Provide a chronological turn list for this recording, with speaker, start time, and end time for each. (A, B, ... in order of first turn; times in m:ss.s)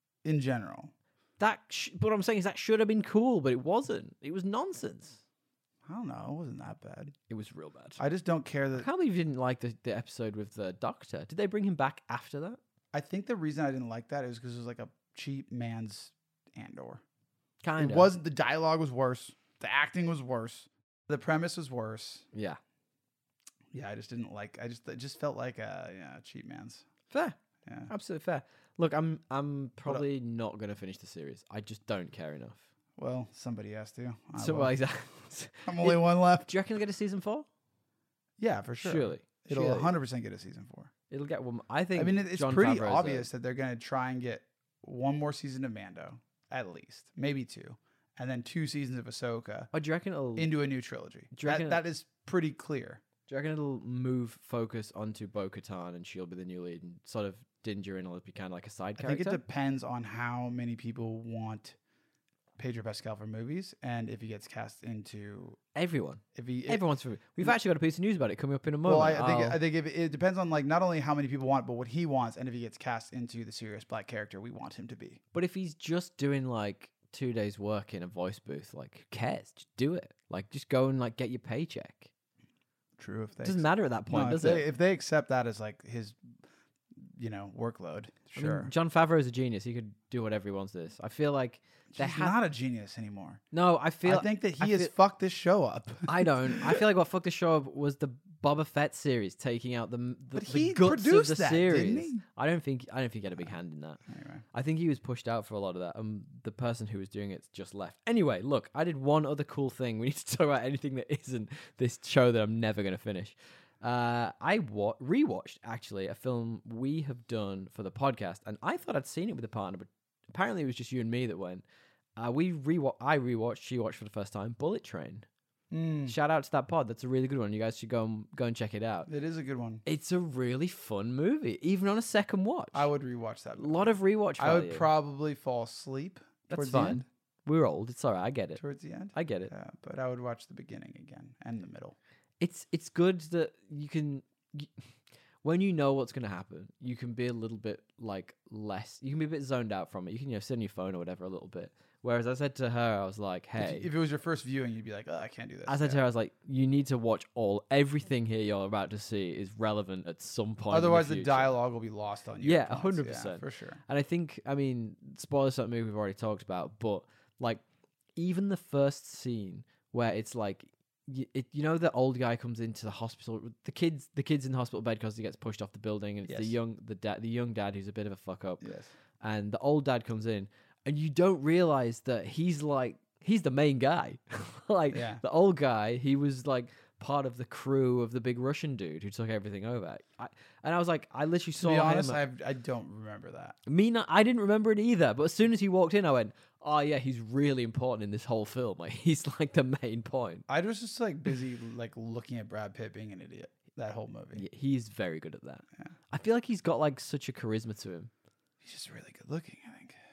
0:00.2-0:00.9 A
0:01.4-0:05.2 B
0:05.8-0:07.1 A
0:07.3-0:08.0 B
0:08.0-0:08.9 A
0:08.7-0:12.6 B
0:12.9-0:17.0 A
0:17.6-0:18.1 B
0:17.8-0:22.2 A
0:22.3-0:22.6 B
0:23.7-0:26.8 A
0:27.1-0:27.4 B
0:27.6-0:27.9 A
0:27.9-0:32.6 B
0:33.0-0:34.7 A
0:34.4-0:37.5 B
0:35.6-0:36.5 A
0:38.4-0:40.9 A
0:38.8-0:39.9 B
0:41.1-0:43.3 B
0:41.9-0:49.7 A
0:49.7-0:50.5 B
0:50.4-0:53.0 A
0:51.3-0:51.8 B
0:53.3-0:59.4 B
0:59.0-1:01.8 A
1:02.6-1:05.6 A
1:05.7-1:09.6 B
1:06.3-1:06.8 A
1:08.8-1:15.2 A
1:15.3-1:22.1 B
1:23.0-1:26.2 A
1:23.4-1:24.6 B
1:27.0-1:28.7 A
1:28.3-1:32.3 B
1:31.9-1:33.4 A
1:33.5-1:34.9 B
1:34.0-1:36.8 A
1:36.1-1:44.0 B
1:40.3-1:42.2 A
1:44.1-1:44.4 A
1:44.5-2:01.6 B
2:02.2-2:05.2 B
2:05.7-2:06.2 A
2:06.0-2:09.1 B
2:09.1-2:09.8 A
2:09.8-2:12.9 B
2:12.7-2:17.0 A
2:13.6-2:14.9 B
2:16.5-2:18.6 B
2:18.6-2:22.0 A
2:19.1-2:19.5 B
2:22.4-2:24.7 B
2:25.4-2:33.9 B
2:33.6-2:36.0 A
2:35.7-2:41.5 B
2:40.7-2:43.8 A
2:42.4-2:47.6 B
2:48.2-2:58.6 B
2:56.2-2:56.6 A
2:58.6-2:58.9 A
2:59.2-3:12.2 B
3:04.9-3:05.2 A
3:11.6-3:13.6 A
3:13.6-3:20.4 B
3:20.5-3:24.4 A
3:24.3-3:28.1 B
3:28.6-3:30.0 A